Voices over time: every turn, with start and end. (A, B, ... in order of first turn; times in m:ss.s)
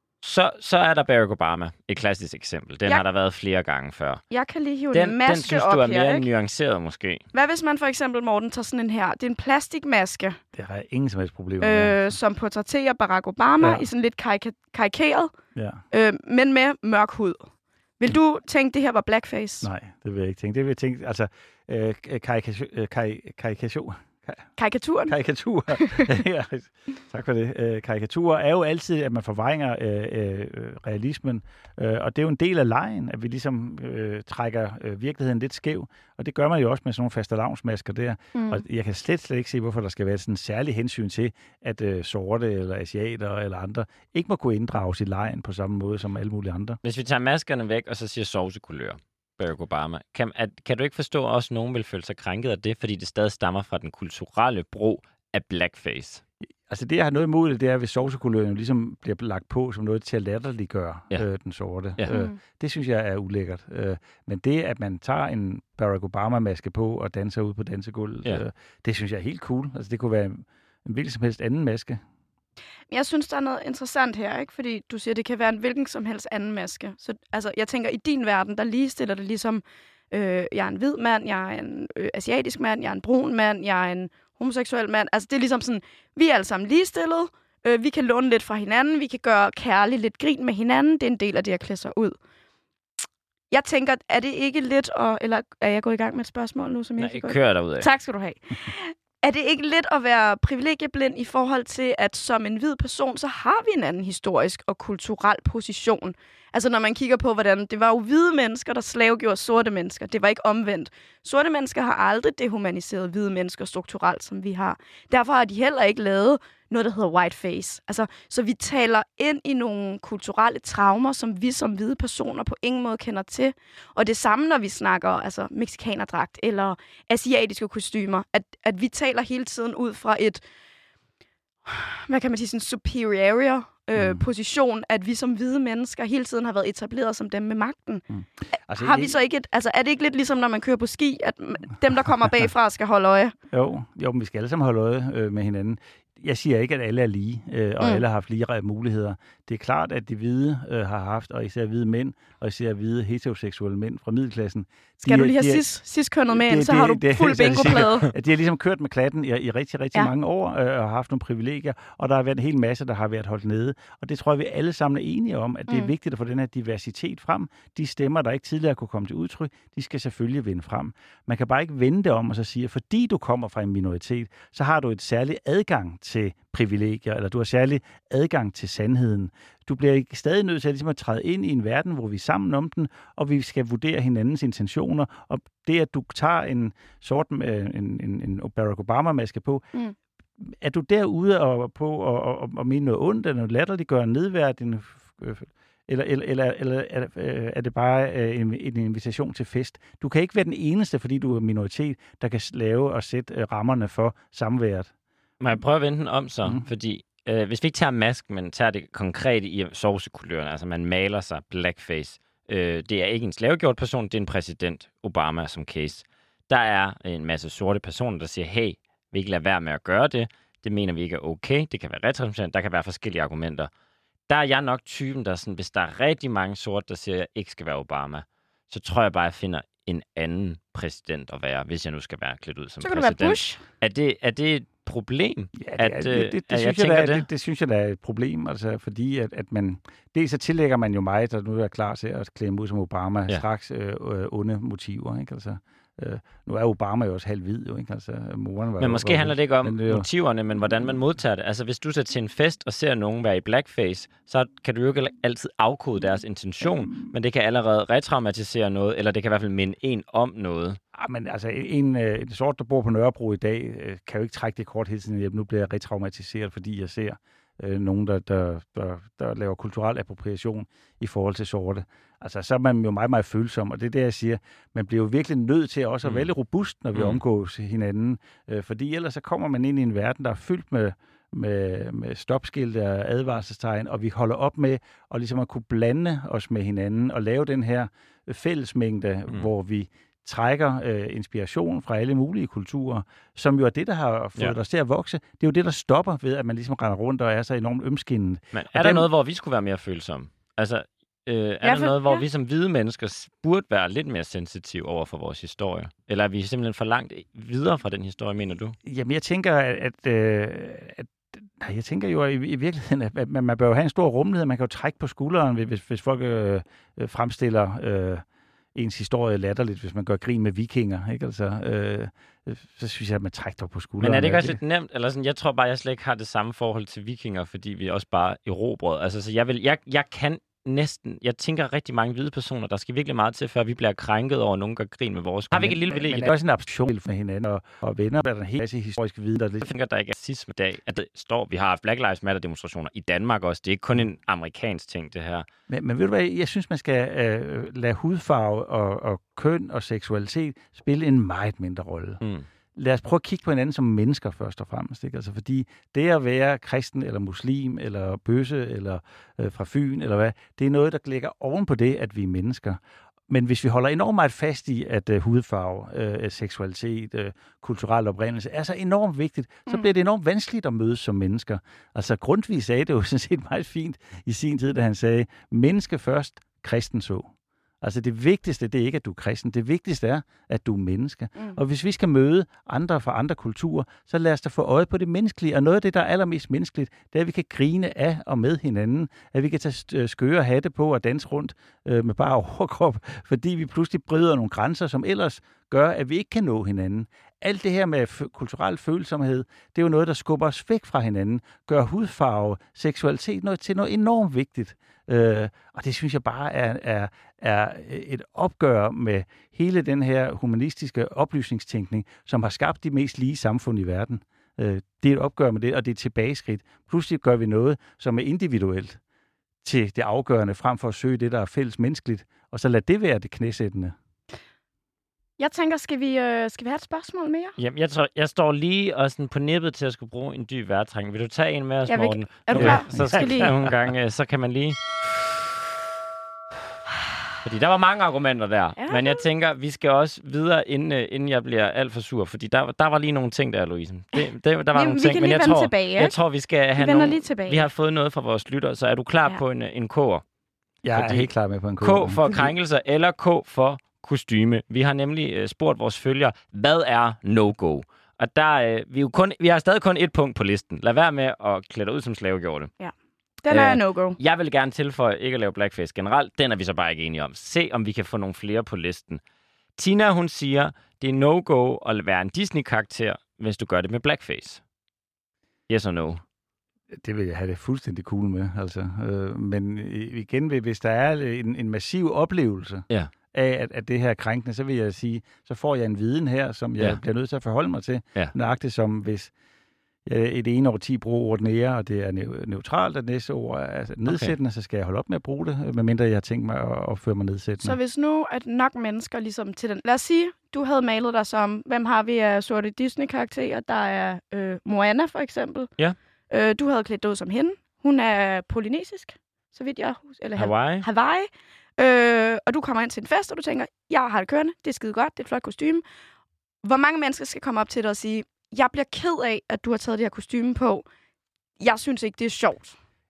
0:00.2-0:04.2 A
0:04.3-0:06.3 B
0:04.9-0:07.2 A
0:07.3-0:10.4 B
0:10.5-0:12.1 C
0:11.6-0:15.3 B
0:15.5-0:15.8 C
0:15.9-0:19.7 B
0:19.6-0:24.4 C
0:24.6-0:25.2 B
0:25.1-0:46.8 C
0:25.7-0:26.1 B
0:38.3-0:38.6 B
0:46.8-0:56.2 A
0:56.7-1:12.0 C
1:02.1-1:02.4 B
1:12.9-1:32.2 B
1:33.5-2:10.4 B
1:37.0-1:37.9 A
2:11.7-2:23.3 B
2:13.9-2:14.2 C
2:18.1-2:19.2 C
2:23.5-2:35.6 C
2:35.0-2:38.1 B
2:36.3-3:09.6 C
3:10.4-3:24.9 C
3:25.4-3:43.7 A
3:44.3-3:57.3 A
3:52.8-3:53.6 B
3:55.6-4:10.1 C
4:08.8-4:20.8 A
4:20.9-4:59.1 C
4:36.9-4:37.2 A
4:58.5-5:08.7 A
5:01.6-5:02.2 B
5:08.8-5:18.2 C
5:18.7-5:24.6 C
5:24.0-5:36.3 A
5:35.5-5:39.7 C
5:39.6-5:45.4 A
5:45.7-5:52.2 C
5:52.8-6:59.0 C
6:59.6-7:03.9 C
7:05.4-7:07.6 B
7:07.6-7:15.0 A
7:11.8-7:13.5 B
7:12.5-7:13.8 C
7:17.4-7:30.2 A
7:18.8-7:19.2 B
7:24.7-7:26.1 B
7:26.8-7:27.6 B
7:30.8-7:32.5 C
7:30.9-7:31.3 A
7:31.8-7:42.7 A
7:42.8-7:44.2 B
7:43.5-7:49.2 A
7:49.8-7:54.6 A
7:55.7-7:56.2 A
7:56.9-8:09.3 C
8:10.0-8:17.8 C
8:14.0-8:14.3 A
8:17.6-8:25.7 B
8:26.3-8:35.8 B
8:30.4-8:30.8 A
8:36.6-8:40.9 B
8:41.6-8:42.8 B